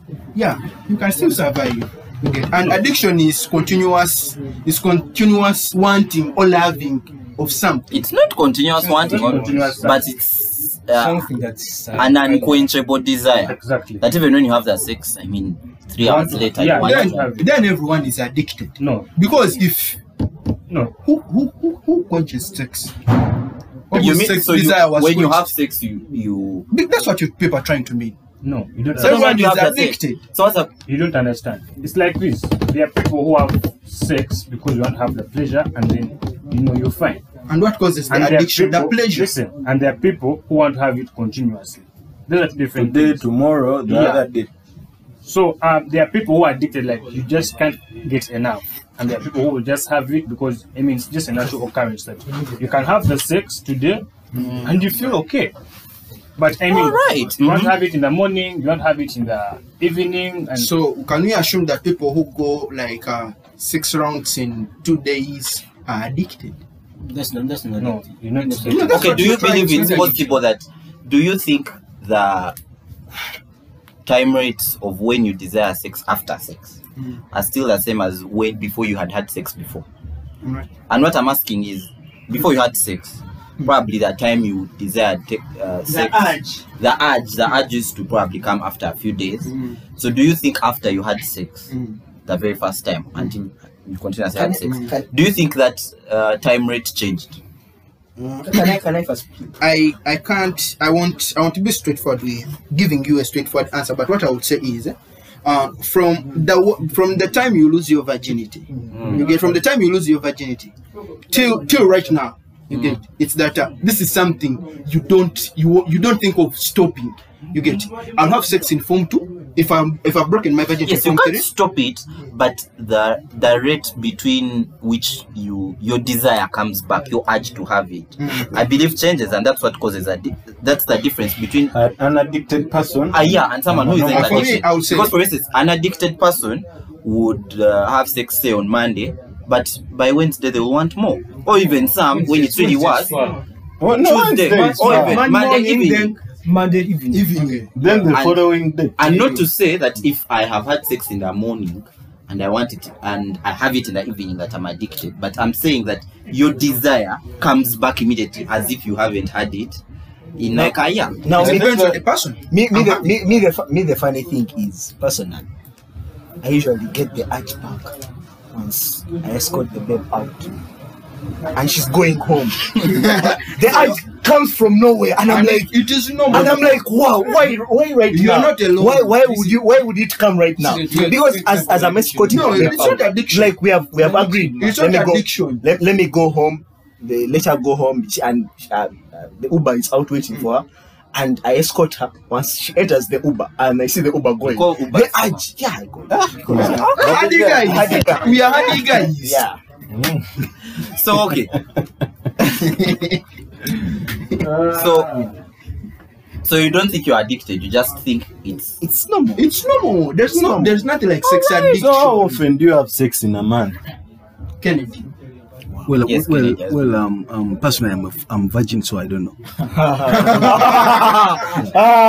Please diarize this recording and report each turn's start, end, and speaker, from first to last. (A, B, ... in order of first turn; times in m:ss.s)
0:00.3-0:08.0 A
0:07.9-0:11.2 B
0:08.8-0:10.0 C
0:08.8-0:09.4 D
0:10.9-0:12.5 D
0:11.9-0:17.4 B
0:13.4-0:14.0 C
0:16.0-0:17.6 C
0:16.7-0:20.0 A
0:18.8-0:19.1 C
0:21.0-0:22.9 A
0:23.9-0:25.5 A
0:23.9-0:26.7 B
0:26.7-0:28.2 A
0:28.4-0:29.2 C
0:28.9-0:30.2 A
0:29.0-0:30.7 B
0:30.8-0:37.2 C
0:37.5-0:39.3 A
0:38.1-0:43.3 C
0:42.7-0:44.5 E
0:43.8-0:44.3 C
0:45.2-0:54.1 C
0:54.3-0:55.2 A
0:54.6-0:55.5 C
0:56.4-1:00.7 C
0:56.7-0:57.7 B
1:00.5-1:06.6 A
1:07.0-1:10.3 D
1:07.8-1:09.2 C
1:08.6-1:10.2 A
1:08.9-1:12.6 B
1:14.0-1:16.8 B
1:17.3-1:19.8 B
1:20.4-1:20.7 A
1:20.9-1:31.7 B
1:26.0-1:26.4 A
1:29.4-1:29.8 A
1:31.7-1:32.0 A
1:32.2-1:37.4 B
1:34.4-1:35.0 F
1:34.6-1:34.9 A
1:38.2-1:38.8 A
1:38.5-1:39.5 F
1:39.6-1:50.7 A
1:48.9-1:49.2 F
1:48.9-1:49.3 B
1:51.3-2:01.5 A
1:52.7-1:53.0 B
2:00.8-2:11.7 B
2:08.2-2:08.6 A
2:11.7-2:14.5 E
2:13.1-2:23.1 B
2:13.9-2:15.1 A
2:22.1-2:23.4 D
2:23.8-2:25.3 E
2:23.9-2:26.2 B
2:24.4-2:27.6 D
2:27.1-2:27.7 A
2:27.7-2:29.4 E
2:28.1-2:39.8 B
2:40.4-2:41.3 B
2:40.5-2:42.0 F
2:41.3-2:43.2 A
2:41.3-2:42.0 E
2:42.5-2:45.4 F
2:46.4-2:47.9 F
2:48.5-2:50.5 F
2:51.5-2:55.7 F
2:52.8-2:54.0 A
2:55.2-2:56.8 A
2:56.3-3:19.6 F
2:58.1-2:59.6 A
3:00.6-3:03.0 D
3:02.3-3:05.6 A
3:14.4-3:15.5 B
3:16.6-3:17.2 B
3:16.8-3:19.4 A
3:19.9-3:20.4 E
3:20.8-3:21.5 B
3:22.4-3:23.2 A
3:24.4-3:25.3 E
3:24.6-3:25.3 B
3:26.4-3:28.8 B
3:28.8-3:29.5 F
3:29.4-3:32.3 A
3:30.4-3:30.7 F
3:31.2-3:33.8 E
3:34.6-3:35.1 A
3:35.8-3:39.5 G
3:36.0-3:37.0 B
3:39.7-3:41.6 F
3:40.1-3:41.0 A